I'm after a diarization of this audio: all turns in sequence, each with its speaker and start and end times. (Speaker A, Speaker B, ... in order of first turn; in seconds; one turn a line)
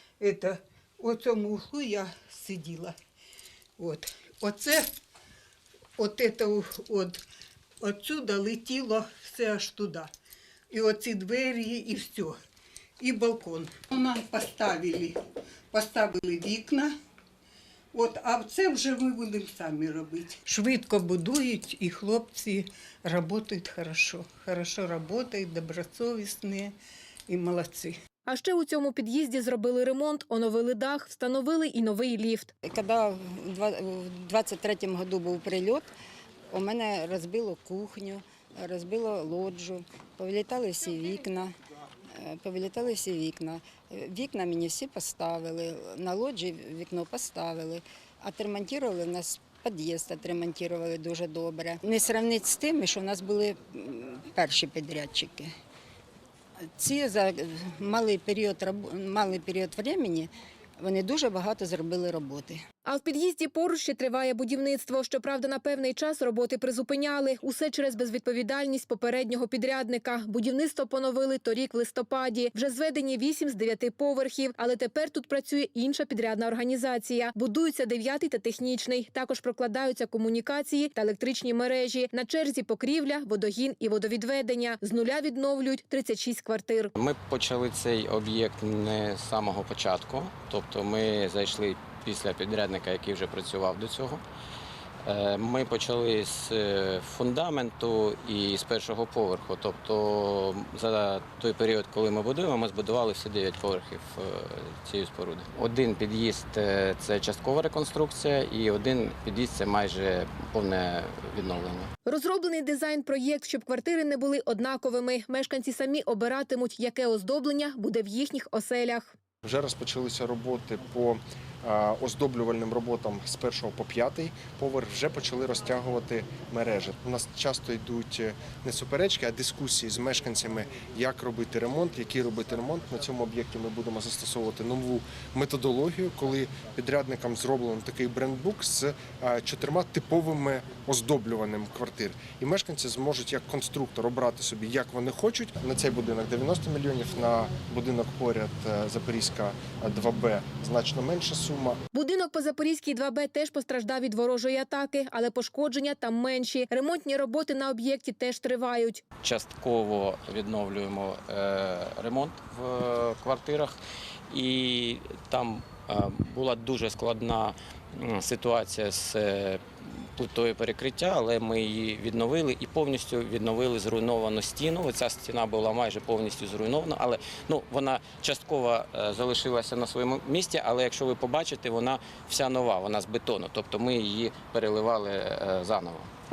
Speaker A: 0.2-3.0
Speaker A: 3.8-5.0
Speaker A: 6.0-7.2
Speaker A: 7.8-10.1
Speaker A: 10.7-12.4
Speaker A: 13.0-15.2
Speaker A: 15.7-16.9
Speaker A: 17.9-26.8
Speaker A: 27.3-28.0
Speaker B: 28.3-32.5
Speaker C: 32.7-35.9
Speaker C: 36.5-41.5
Speaker C: 42.1-55.5
Speaker C: 56.8-62.6
Speaker B: 62.9-86.9
Speaker D: 87.0-94.2
Speaker D: 95.0-111.9
Speaker B: 112.1-119.2
Speaker E: 119.4-151.8
Speaker B: 151.9-159.0
Speaker D: 159.2-163.8
Speaker D: 164.3-186.1